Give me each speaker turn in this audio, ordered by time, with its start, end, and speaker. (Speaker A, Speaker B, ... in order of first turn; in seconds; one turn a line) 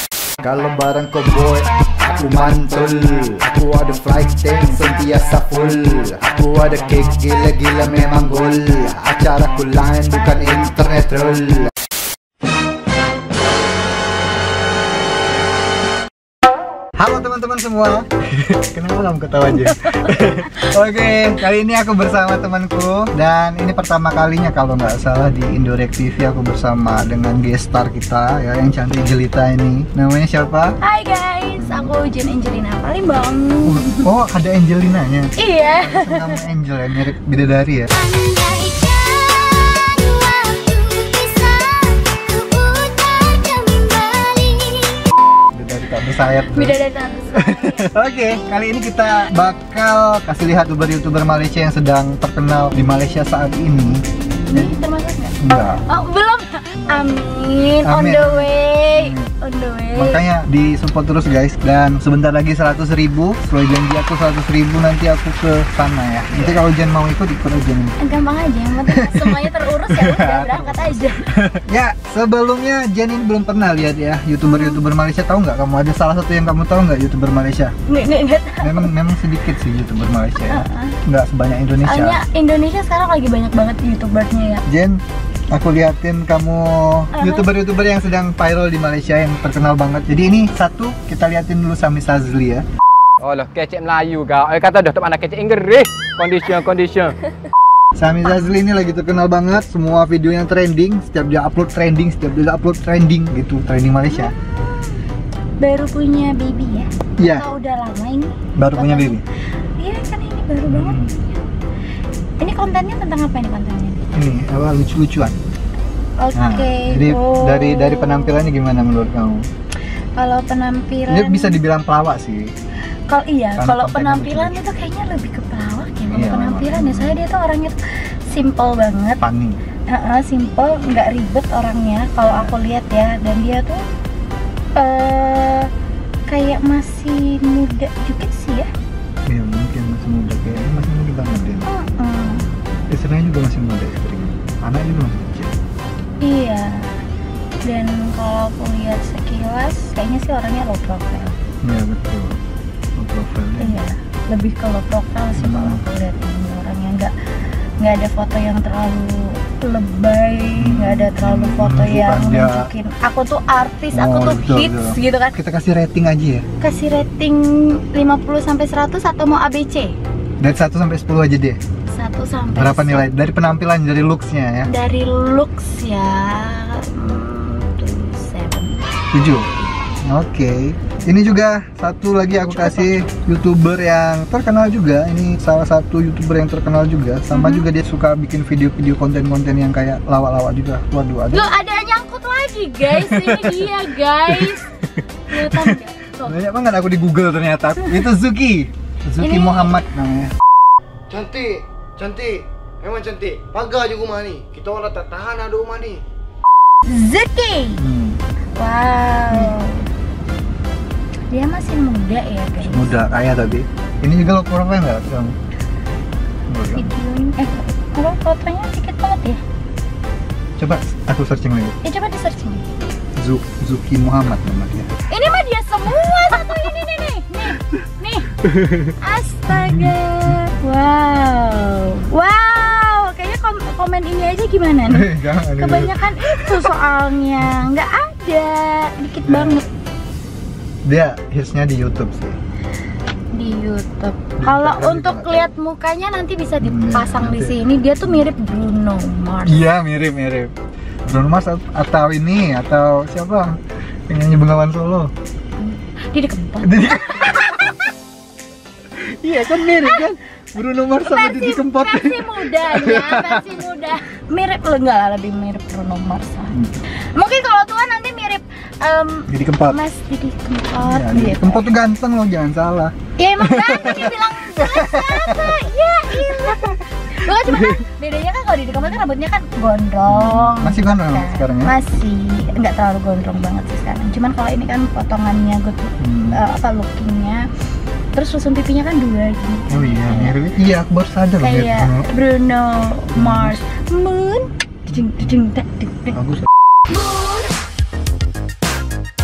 Speaker A: 0.4-11.7
Speaker A: 17.0-30.8
Speaker B: 19.5-20.5
Speaker B: 30.8-34.0
Speaker A: 31.6-31.9
Speaker A: 33.6-37.9
Speaker B: 35.4-36.5
Speaker B: 37.9-45.1
Speaker A: 45.5-46.8
Speaker B: 46.5-47.9
Speaker A: 47.3-54.0
Speaker B: 54.5-60.2
Speaker A: 55.4-55.8
Speaker A: 56.8-57.1
Speaker A: 57.8-59.3
Speaker A: 59.9-68.0
Speaker B: 68.0-71.3
Speaker A: 68.9-77.7
Speaker B: 74.4-74.8
Speaker B: 77.9-78.9
Speaker A: 78.6-82.2
Speaker B: 80.4-81.0
Speaker B: 81.8-84.6
Speaker A: 84.7-85.0
Speaker A: 85.5-92.7
Speaker B: 87.1-87.5
Speaker C: 93.2-97.2
Speaker A: 98.0-104.3
Speaker B: 104.1-105.0
Speaker B: 105.6-109.2
Speaker A: 107.2-107.5
Speaker A: 108.6-109.2
Speaker B: 109.8-111.4
Speaker A: 110.7-111.1
Speaker B: 112.4-114.0
Speaker A: 114.1-115.3
Speaker B: 116.2-118.5
Speaker A: 116.3-119.4
Speaker B: 120.2-121.6
Speaker A: 121.1-122.5
Speaker B: 123.1-129.2
Speaker A: 123.6-124.7
Speaker A: 126.1-127.2
Speaker A: 129.2-129.6
Speaker B: 129.9-133.8
Speaker A: 132.2-132.5
Speaker B: 134.8-135.7
Speaker B: 136.3-138.7
Speaker A: 139.3-141.7
Speaker B: 141.7-142.5
Speaker A: 142.9-145.5
Speaker B: 146.2-146.9
Speaker B: 147.6-151.3
Speaker A: 151.6-152.4
Speaker A: 153.0-153.8
Speaker B: 153.6-157.1
Speaker A: 155.4-155.8
Speaker B: 157.8-165.3
Speaker A: 160.6-162.7
Speaker A: 163.9-166.4
Speaker B: 166.6-169.9
Speaker A: 170.4-171.6
Speaker B: 171.9-173.1
Speaker A: 172.5-174.7
Speaker B: 174.7-178.9
Speaker A: 179.1-179.4
Speaker A: 180.0-191.5
Speaker B: 182.5-182.9
Speaker B: 187.3-187.7
Speaker B: 191.3-194.7
Speaker A: 192.9-193.7
Speaker A: 194.3-200.3
Speaker B: 195.3-196.4
Speaker B: 199.2-199.8
Speaker D: 201.1-206.0
Speaker B: 206.8-207.8
Speaker A: 207.8-208.2
Speaker B: 208.6-209.8
Speaker A: 209.3-209.6
Speaker B: 211.3-212.9
Speaker A: 212.6-215.3
Speaker A: 216.5-216.9
Speaker B: 216.7-219.4
Speaker A: 220.6-221.7
Speaker B: 221.8-222.6
Speaker A: 223.2-224.9
Speaker B: 225.1-228.3
Speaker A: 226.0-226.6
Speaker A: 228.4-228.9
Speaker B: 229.0-239.7
Speaker A: 229.5-230.4
Speaker A: 234.9-236.6
Speaker A: 239.2-239.6
Speaker A: 240.8-242.3
Speaker B: 243.3-249.6
Speaker A: 244.4-245.5
Speaker A: 246.6-248.2
Speaker A: 249.4-250.5
Speaker A: 251.1-253.6
Speaker A: 254.1-255.1
Speaker B: 255.6-257.8
Speaker A: 256.6-257.7
Speaker A: 258.9-263.6
Speaker B: 259.6-260.0
Speaker B: 261.0-271.7
Speaker A: 266.5-266.8
Speaker A: 269.3-269.8
Speaker A: 270.8-277.8
Speaker B: 273.2-287.5
Speaker A: 280.1-281.7
Speaker A: 286.0-286.4
Speaker B: 288.1-290.4
Speaker A: 289.7-292.1
Speaker B: 291.4-296.2
Speaker A: 293.1-293.6
Speaker A: 296.1-296.5